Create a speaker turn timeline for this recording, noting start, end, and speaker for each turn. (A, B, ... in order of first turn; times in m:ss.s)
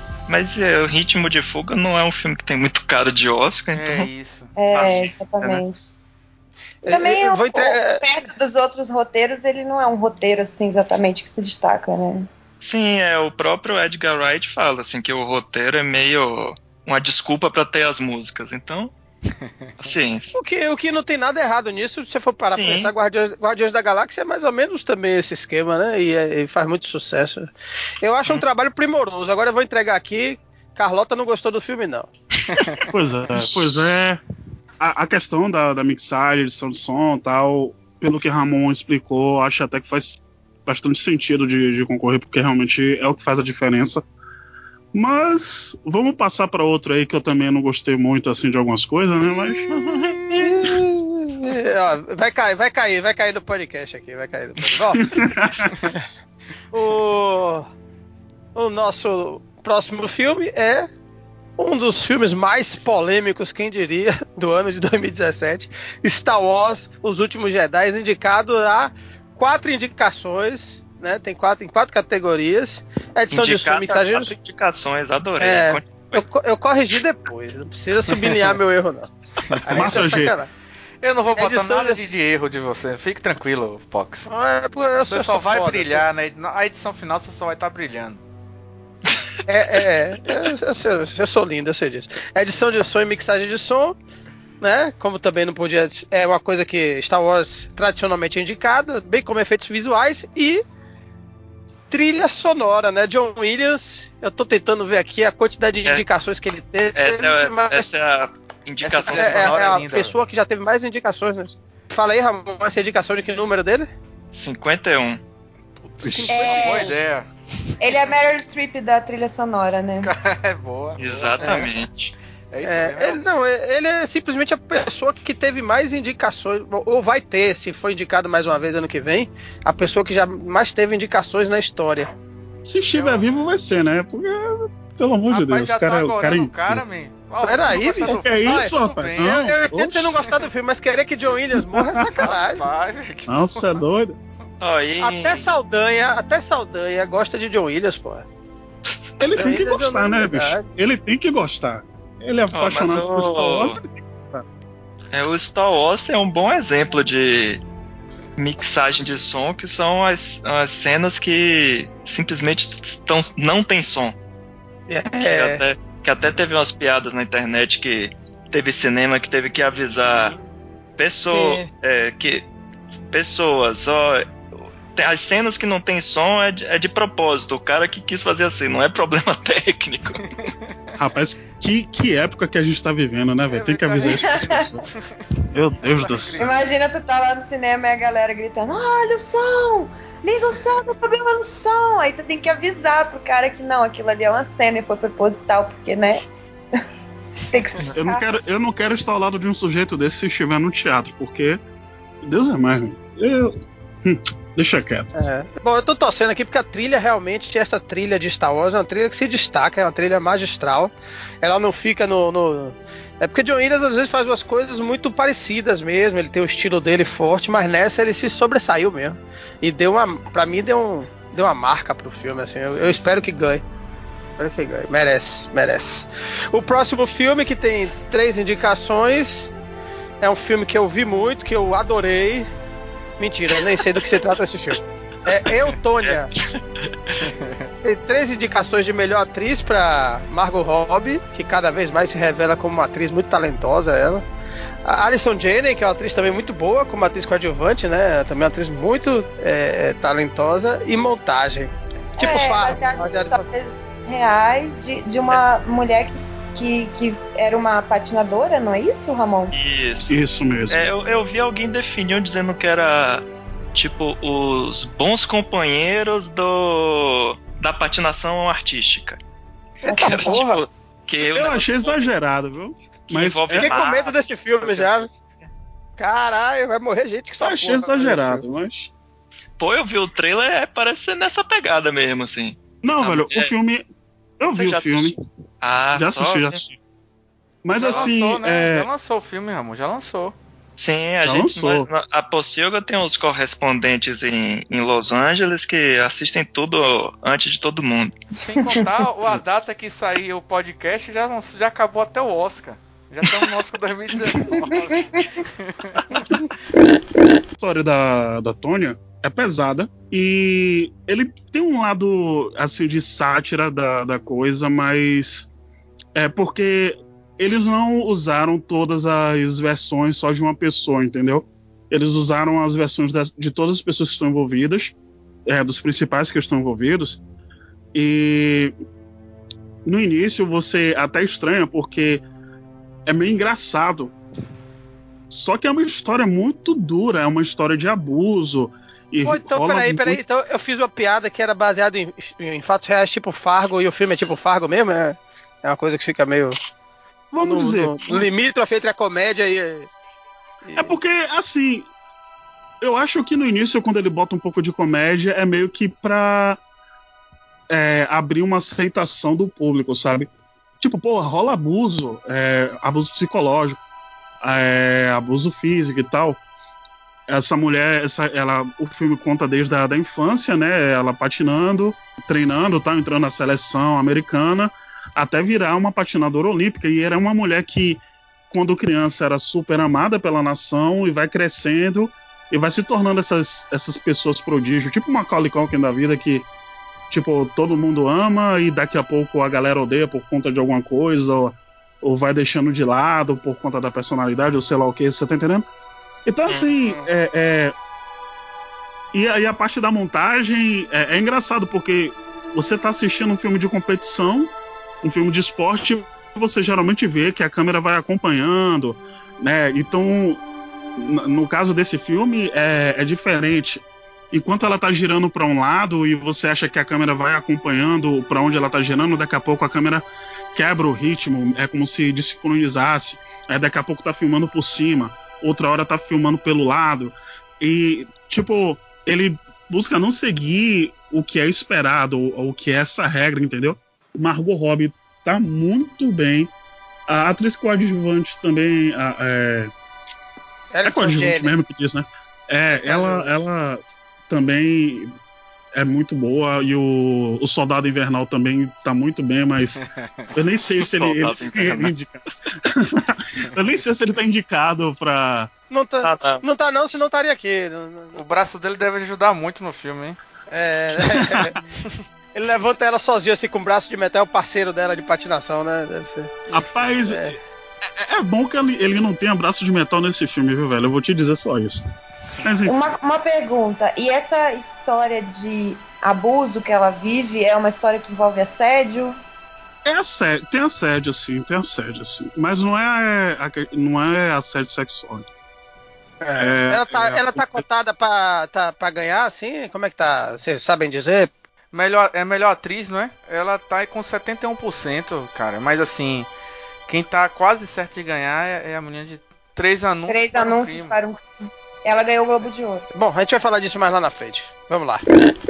0:00.3-0:04.1 A
0:03.7-0:04.5 B
0:04.6-0:05.9 C
0:04.7-0:05.6 A
0:06.8-0:08.0 D
0:06.9-0:12.3 C
0:12.6-0:18.9 A
0:19.8-0:20.3 A
0:20.3-0:32.1 D
0:22.4-0:22.9 A
0:32.9-0:34.2 E
0:34.8-0:44.0 E
0:44.9-0:49.8 E
0:50.3-0:55.1 D
0:54.9-0:55.8 E
0:56.7-0:57.7 D
0:58.5-1:00.9 D
1:01.6-1:14.3 D
1:13.3-1:16.2 A
1:15.4-1:19.1 D
1:19.6-1:20.5 D
1:19.7-1:20.4 E
1:21.0-1:24.3 B
1:21.3-1:22.0 D
1:24.3-1:26.1 D
1:25.1-1:28.2 B
1:29.5-1:34.0 D
1:34.6-1:40.6 D
1:41.9-1:47.9 D
1:46.9-1:49.9 A
1:48.8-1:50.1 B
1:49.1-1:53.9 D
1:54.3-1:55.2 A
1:55.9-1:57.3 B
1:56.0-1:56.4 E
1:56.0-1:57.0 D
1:56.3-1:56.9 C
1:57.8-2:00.1 C
2:00.0-2:01.7 B
2:01.0-2:02.1 A
2:02.5-2:03.2 B
2:02.6-2:12.1 D
2:12.6-2:16.8 E
2:12.9-2:13.4 B
2:15.3-2:19.5 B
2:17.4-2:18.7 D
2:18.0-2:20.1 E
2:19.2-2:22.6 D
2:21.7-2:22.2 E
2:22.2-2:23.8 B
2:23.3-2:24.2 E
2:24.6-2:25.4 A
2:25.0-2:28.2 D
2:29.2-2:34.4 E
2:29.4-2:30.6 D
2:32.5-2:33.8 A
2:35.1-2:37.6 A
2:38.4-2:44.2 A
2:44.9-2:45.6 D
2:45.2-2:50.4 A
2:51.0-2:52.4 A
2:51.3-2:51.7 D
2:53.1-2:54.2 A
2:54.9-3:00.4 A
3:01.0-3:04.9 E
3:03.5-3:05.0 B
3:04.0-3:04.6 C
3:05.5-3:06.5 E
3:05.8-3:06.6 B
3:06.4-3:16.2 C
3:17.5-3:18.5 C
3:17.9-3:21.6 E
3:22.2-3:25.1 E
3:25.1-3:43.6 D
3:42.7-3:43.2 B
3:44.4-3:49.5 D
3:50.2-3:52.5 D
3:53.2-3:56.3 D
3:56.0-3:56.6 A
3:57.2-3:57.7 B
3:57.8-4:04.2 D
4:04.8-4:13.4 D
4:12.2-4:19.5 C
4:19.5-4:20.2 A
4:20.1-4:20.9 E
4:20.7-4:29.2 A
4:29.8-4:30.6 D
4:29.8-4:32.1 A
4:30.0-4:30.4 E
4:31.2-4:33.8 E
4:33.1-4:35.1 A
4:33.5-4:35.1 D
4:36.0-4:38.4 D
4:37.4-4:38.9 E
4:39.6-4:43.5 A
4:42.8-4:43.8 E
4:44.4-4:45.2 E
4:44.5-4:46.6 A
4:45.9-4:46.8 E
4:47.6-4:48.9 E
4:47.8-4:50.3 B
4:47.8-4:48.1 A
4:50.8-4:58.2 A
4:51.2-4:51.9 E
4:58.3-5:06.4 B
5:07.6-5:15.5 E
5:16.1-5:24.9 E
5:25.4-5:27.2 E
5:27.9-5:28.7 E
5:29.8-5:32.2 E
5:33.0-5:34.1 E
5:35.3-5:40.2 E
5:39.2-5:46.6 D
5:47.3-5:48.3 E
5:47.4-5:49.9 D
5:50.6-5:51.0 D
5:50.8-5:51.9 E
5:52.8-5:56.6 E
5:57.7-6:03.8 E
6:04.4-6:06.4 E
6:07.3-6:26.5 E
6:27.1-6:35.6 E
6:36.2-6:37.8 E
6:39.1-6:44.5 E
6:45.0-6:50.4 E
6:51.0-7:16.5 E
7:17.1-7:19.7 E
7:20.7-7:21.5 D
7:20.8-7:25.1 E
7:22.7-7:23.4 D
7:25.7-7:29.8 E
7:29.8-7:30.3 B
7:30.3-7:35.5 E
7:30.8-7:31.9 A
7:35.7-7:38.2 D
7:36.0-7:36.4 A
7:38.1-7:40.2 B
7:40.5-7:41.6 D
7:41.0-7:41.6 E
7:42.3-7:46.3 D
7:46.5-7:47.4 E
7:47.0-7:47.4 D
7:47.9-7:51.8 E
7:52.4-7:52.9 E
7:52.6-7:59.2 C
7:59.8-8:05.3 E
8:06.2-8:11.3 D
8:06.4-8:07.6 E
8:11.7-8:16.3 B
8:16.9-8:20.9 B
8:20.1-8:22.8 C
8:22.9-8:25.0 D